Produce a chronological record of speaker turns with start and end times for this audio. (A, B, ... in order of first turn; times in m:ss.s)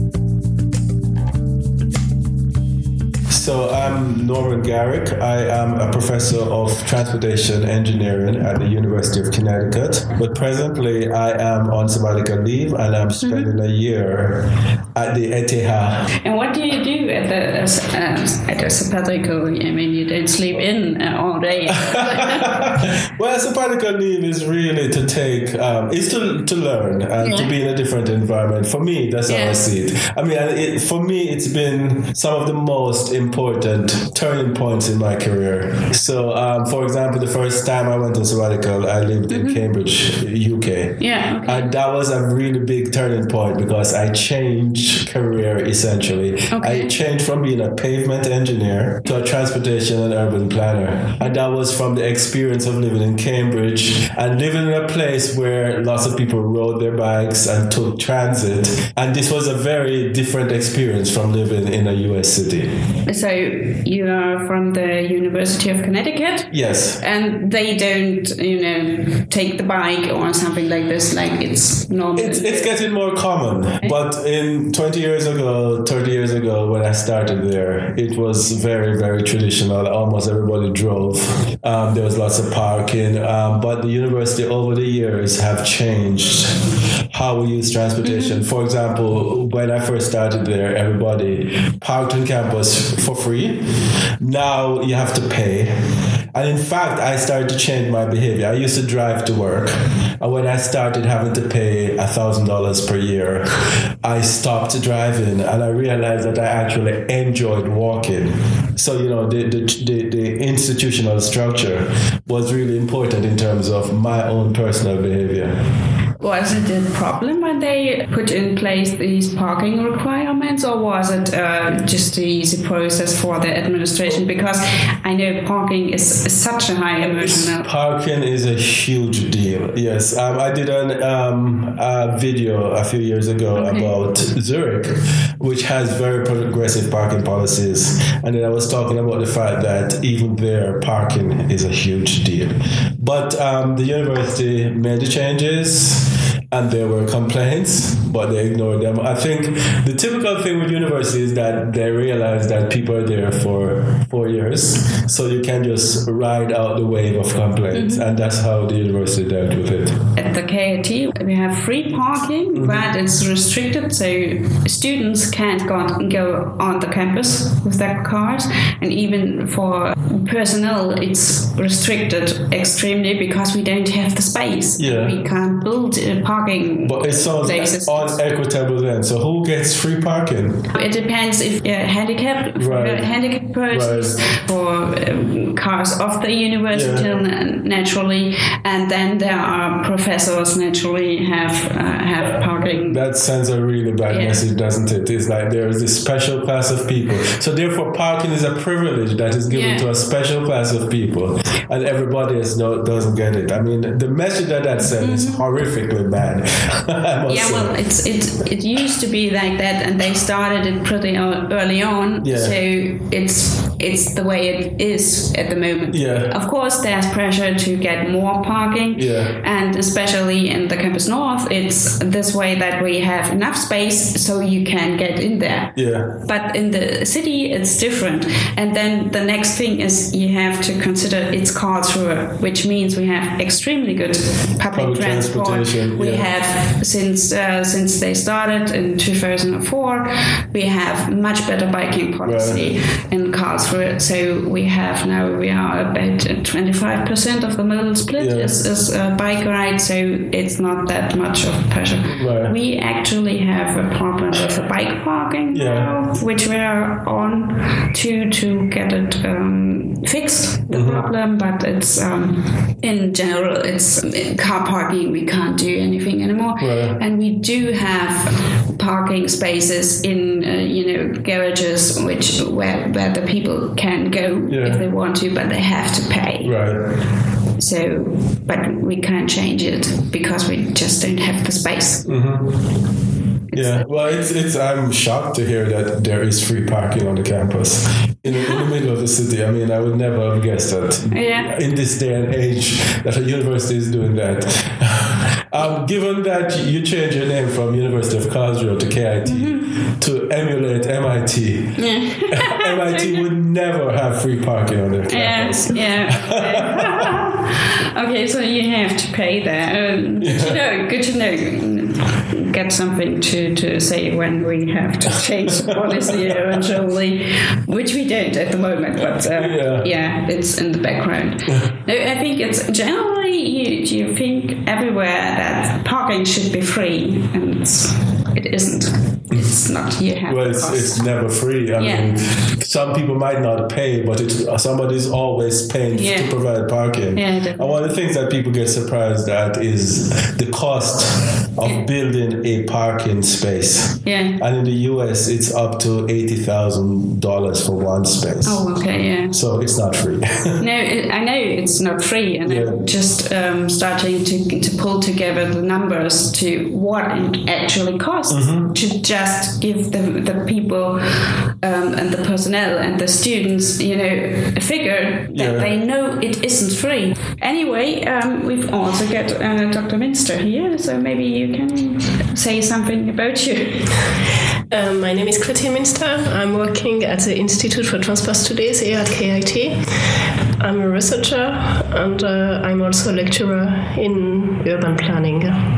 0:03.3-0:16.1 A
0:13.2-0:13.5 B
0:16.2-0:22.5 B
0:21.8-1:02.8 A
0:27.2-0:27.5 B
0:29.3-0:29.6 B
0:39.3-0:39.6 B
0:41.0-0:41.7 B
0:46.5-0:46.9 B
1:03.0-1:12.8 B
1:06.5-1:07.0 A
1:12.2-1:55.6 A
1:28.0-1:28.4 B
1:56.2-2:07.7 B
2:07.0-2:40.0 A
2:13.5-2:13.9 B
2:37.7-2:38.0 B
2:40.1-2:58.1 B
2:42.5-2:42.8 A
2:54.8-2:55.2 A
2:56.8-3:00.7 A
3:00.7-3:13.0 B
3:02.6-3:03.1 A
3:03.7-3:04.2 A
3:06.7-3:07.0 A
3:12.2-3:27.8 A
3:14.1-3:14.4 B
3:19.5-3:19.9 B
3:24.8-3:25.4 B
3:27.3-4:36.6 B
3:32.2-3:32.6 A
3:35.9-3:36.4 A
3:38.9-3:39.4 A
3:45.7-3:46.2 A
3:54.7-3:56.3 A
4:02.2-4:02.7 A
4:08.2-4:08.6 A
4:12.0-4:12.5 A
4:15.5-4:16.0 A
4:20.7-4:21.0 A
4:26.6-4:27.0 A
4:34.5-4:34.8 A
4:36.4-4:36.9 A
4:37.6-4:42.1 B
4:42.0-4:42.6 A
4:43.5-4:43.9 B
4:43.5-5:07.1 A
4:48.2-4:48.6 B
4:51.1-4:51.5 B
4:59.2-4:59.7 B
5:01.8-5:03.2 B
5:05.1-5:31.1 B
5:10.2-5:10.6 A
5:15.7-5:16.6 A
5:19.4-5:19.9 A
5:30.2-5:50.6 A
5:31.8-5:32.1 B
5:35.9-5:36.6 B
5:37.1-5:37.9 B
5:44.0-5:44.4 B
5:48.4-5:49.4 B
5:50.6-6:14.1 B
5:52.4-5:52.8 A
5:58.3-5:58.7 A
6:05.3-6:05.7 A
6:14.7-6:20.0 C
6:20.6-6:25.6 C